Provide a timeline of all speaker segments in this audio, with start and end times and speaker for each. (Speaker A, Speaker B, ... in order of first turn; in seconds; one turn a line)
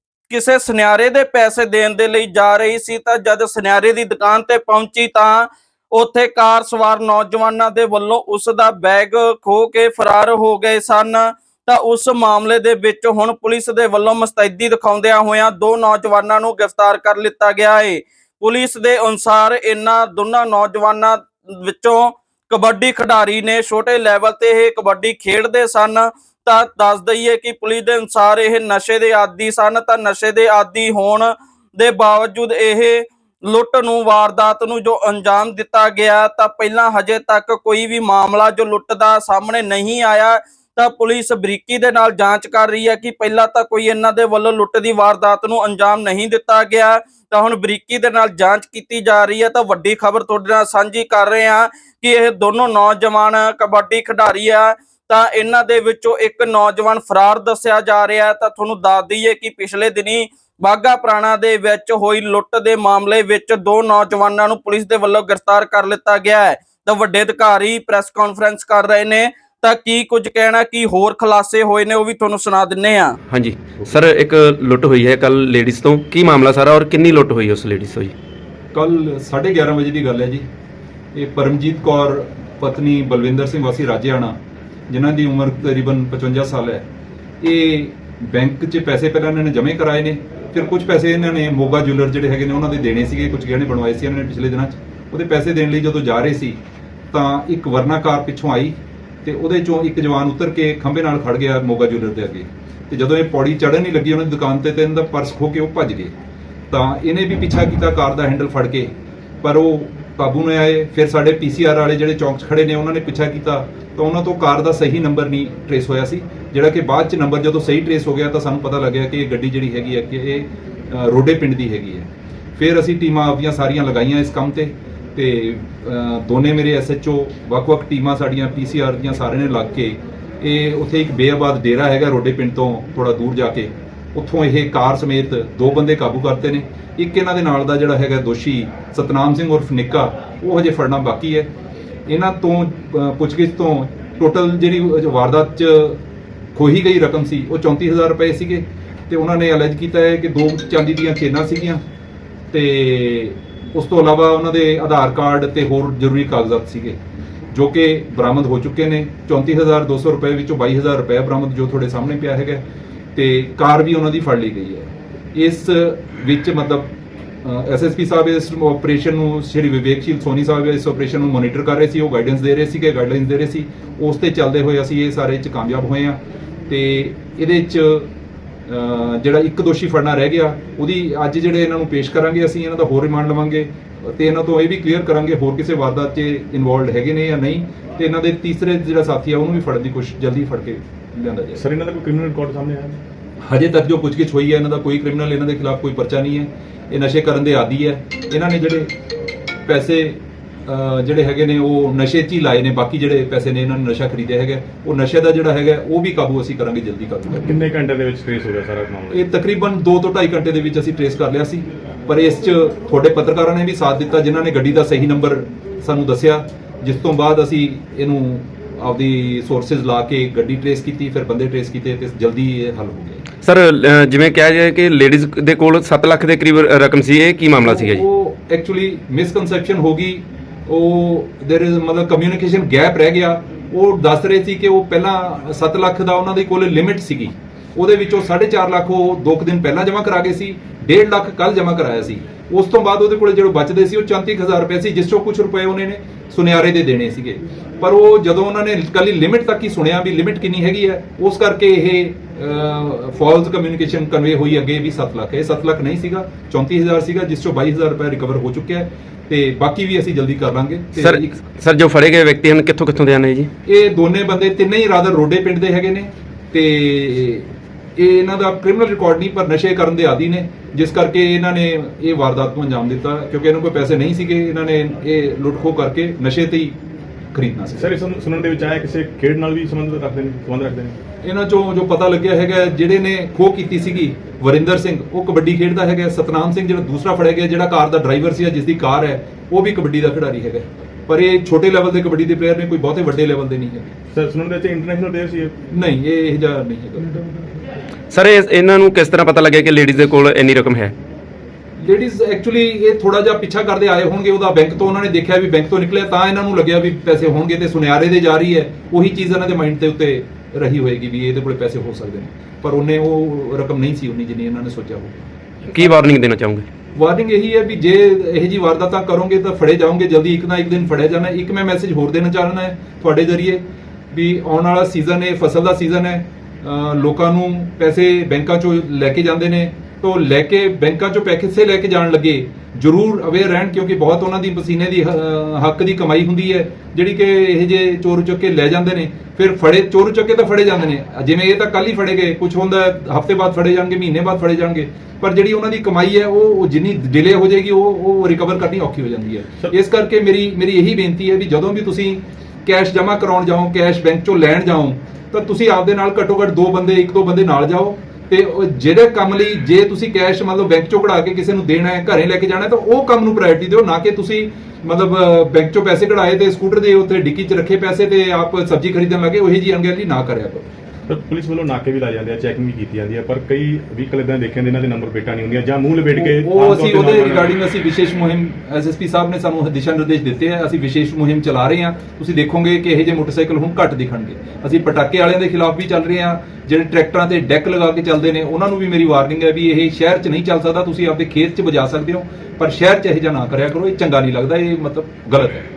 Speaker A: 0.3-73.2
Speaker B: 73.3-78.1
Speaker C: 78.7-80.5
Speaker C: 81.1-84.3
Speaker C: 84.9-86.8
Speaker C: 87.4-96.6
Speaker C: 97.1-106.1
Speaker C: 106.7-141.5
Speaker C: 142.1-146.0
Speaker C: 146.5-151.8
Speaker C: 152.5-157.0
Speaker C: 157.5-178.1
Speaker C: 178.7-191.6
Speaker D: 191.6-193.0
Speaker C: 193.4-198.9
Speaker C: 199.7-207.5
Speaker D: 207.4-209.2
Speaker C: 209.1-223.2
Speaker B: 223.4-228.0
Speaker C: 227.6-261.3
Speaker B: 261.0-263.5
Speaker C: 263.6-276.8
Speaker C: 277.3-278.0
Speaker D: 277.7-281.0
Speaker C: 281.2-293.9
Speaker D: 294.1-295.5
Speaker C: 295.7-297.1
Speaker B: 298.1-300.9
Speaker C: 301.8-315.2
Speaker B: 315.7-316.6
Speaker C: 316.9-370.7
Speaker D: 371.1-377.5
Speaker C: 376.1-395.6